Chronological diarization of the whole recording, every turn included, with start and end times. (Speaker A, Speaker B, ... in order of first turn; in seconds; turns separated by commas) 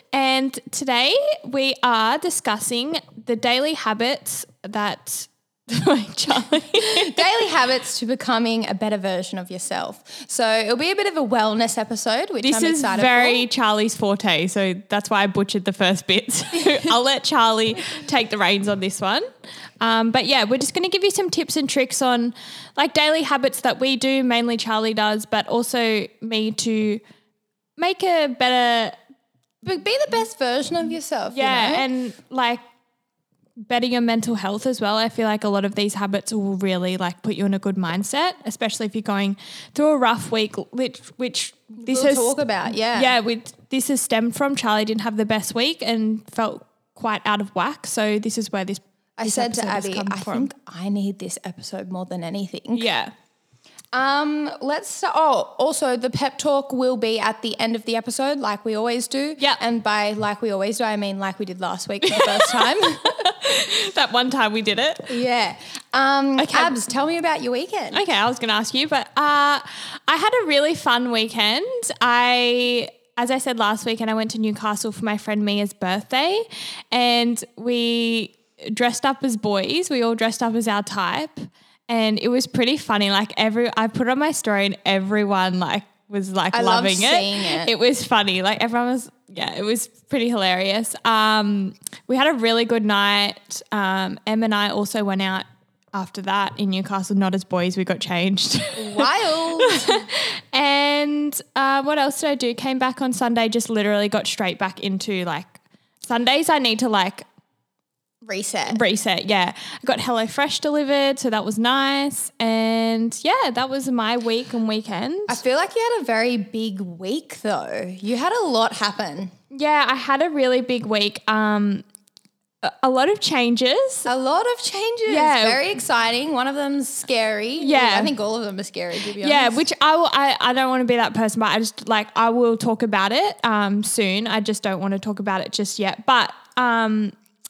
Speaker A: 0.1-7.2, Speaker B: 6.8-13.5, Speaker A: 12.4-19.3, Speaker A: 19.8-27.0, Speaker A: 27.8-29.0, Speaker B: 29.6-31.9, Speaker A: 31.3-32.6, Speaker A: 33.7-42.4, Speaker B: 41.8-43.1, Speaker A: 42.9-50.5, Speaker B: 49.2-52.9, Speaker A: 52.7-53.1, Speaker B: 53.9-63.3, Speaker A: 62.0-65.2, Speaker B: 65.1-68.0, Speaker A: 66.4-66.8, Speaker A: 67.9-107.3, Speaker B: 86.5-87.7, Speaker B: 98.8-100.0, Speaker B: 108.2-108.8, Speaker A: 108.7-115.4, Speaker B: 115.3-119.3, Speaker A: 119.5-121.8, Speaker A: 122.6-124.1, Speaker B: 124.0-129.6, Speaker A: 125.1-125.7, Speaker A: 127.6-128.1, Speaker A: 129.2-137.2